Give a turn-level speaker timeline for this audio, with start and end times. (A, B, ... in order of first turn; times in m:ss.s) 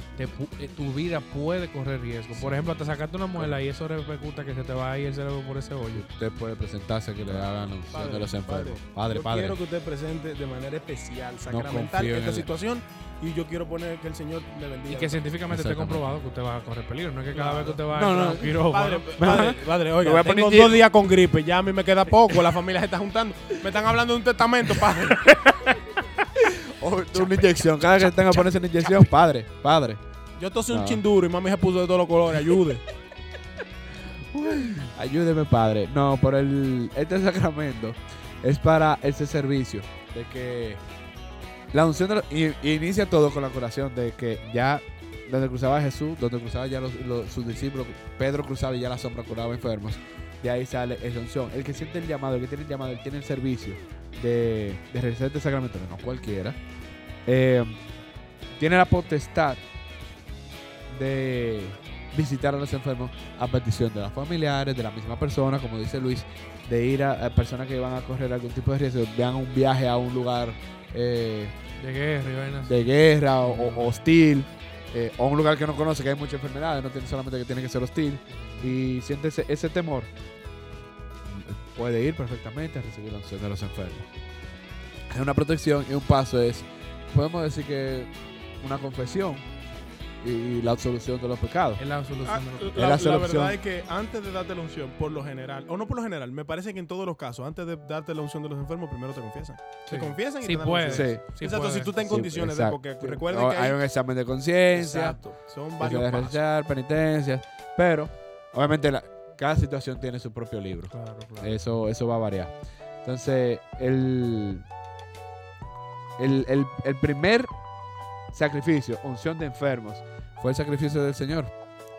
0:00.2-0:06.1 A
0:02.3-0:02.8 B
0:03.3-0:03.6 B
0:05.9-0:09.6 B
0:07.9-0:15.2 C
0:11.5-0:12.5 B
0:14.9-0:19.4 A
0:15.5-0:16.1 B
0:17.3-0:17.8 C
0:17.9-0:18.6 B
0:18.6-0:25.8 C
0:19.2-0:20.8 B
0:26.4-0:30.0 B
0:27.1-0:28.5 C
0:30.4-0:32.8 C
0:30.7-0:31.0 B
0:34.3-0:40.8 B
0:41.7-0:56.6 B
0:57.3-0:57.8 B
0:58.6-0:59.6 B
1:00.9-1:11.6 B
1:11.8-1:12.8 A
1:12.7-1:20.1 B
1:13.4-1:14.0 A
1:18.4-1:18.7 A
1:21.2-1:24.1 B
1:25.1-1:29.4 B
1:30.2-1:31.8 B
1:31.8-1:32.9 A
1:32.2-1:43.8 C
1:32.8-1:33.6 B
1:39.9-1:42.0 A
1:40.8-1:41.2 B
1:42.0-1:45.2 B
1:44.7-1:46.4 C
1:45.8-1:52.5 B
1:50.9-1:51.6 A
1:53.0-1:54.6 B
1:56.2-1:57.5 B
1:58.3-2:01.5 B